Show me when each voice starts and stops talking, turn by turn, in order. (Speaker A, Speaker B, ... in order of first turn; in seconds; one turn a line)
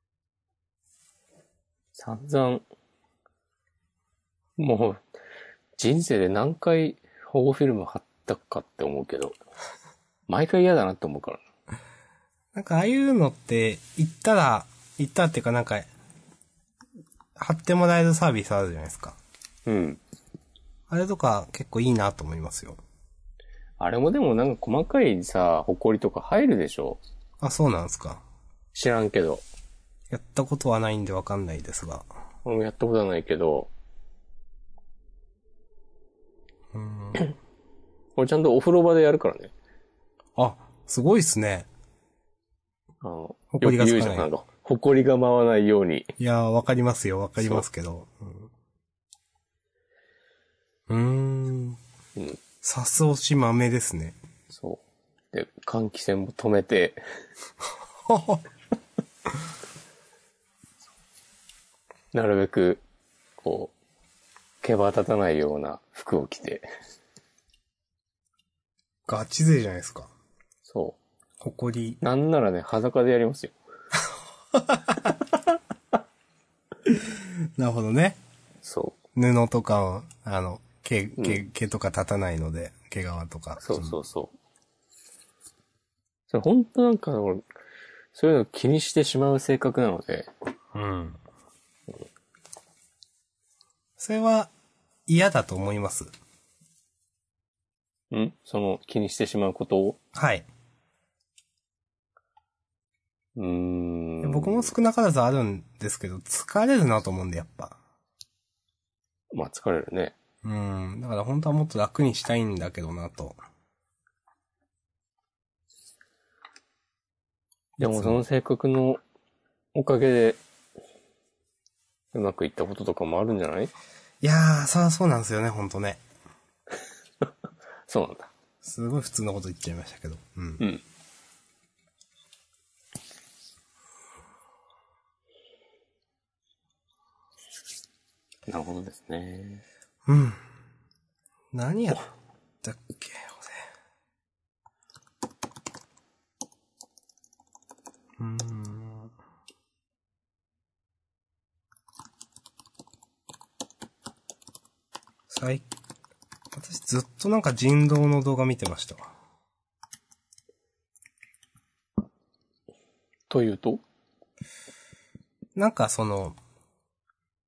Speaker A: 1.9-2.6
Speaker A: 4.6-5.0
Speaker A: 5.8-9.4
Speaker A: 10.3-11.4
Speaker B: 12.5-15.9
Speaker B: 17.4-19.2
Speaker A: 19.7-20.0
Speaker B: 20.9-22.8
Speaker A: 23.8-27.0
Speaker B: 27.4-28.2
Speaker A: 28.7-29.4
Speaker B: 30.1-32.1
Speaker A: 32.5-33.7
Speaker B: 36.7-37.3
Speaker A: 38.2-39.5
Speaker B: 40.4-41.7
Speaker A: 43.0-46.1
Speaker B: 43.5-44.3
Speaker B: 46.2-48.5
Speaker B: 50.9-51.8
Speaker B: 52.6-54.2
Speaker A: 54.5-57.0
Speaker B: 58.1-58.4
Speaker A: 62.1-62.8
Speaker A: 63.4-63.7
Speaker A: 64.6-66.7
Speaker B: 69.1-70.1
Speaker A: 70.7-71.0
Speaker B: 71.4-72.0
Speaker A: 72.0-73.5
Speaker B: 74.5-75.2
Speaker B: 76.8-78.2
Speaker A: 78.6-79.0
Speaker B: 79.2-84.0
Speaker A: 83.6-84.3
Speaker A: 86.3-87.4
Speaker A: 88.1-90.3
Speaker B: 90.7-91.2
Speaker B: 94.0-94.5
Speaker B: 95.1-96.1
Speaker A: 98.1-100.0
Speaker B: 100.1-100.5
Speaker A: 103.4-104.7
Speaker B: 104.2-107.8
Speaker A: 109.3-110.2
Speaker B: 110.4-113.4
Speaker B: 117.8-118.2
Speaker A: 117.8-119.0
Speaker A: 119.7-120.4
Speaker A: 122.1-123.7
Speaker B: 124.2-126.0
Speaker A: 127.9-128.3
Speaker B: 128.6-130.6
Speaker A: 138.5-139.6
Speaker B: 140.1-140.4
Speaker B: 141.5-142.1
Speaker B: 142.6-143.6
Speaker B: 148.2-149.1
Speaker B: 155.3-155.7
Speaker B: 156.5-159.1
Speaker A: 163.3-163.8
Speaker B: 165.6-166.4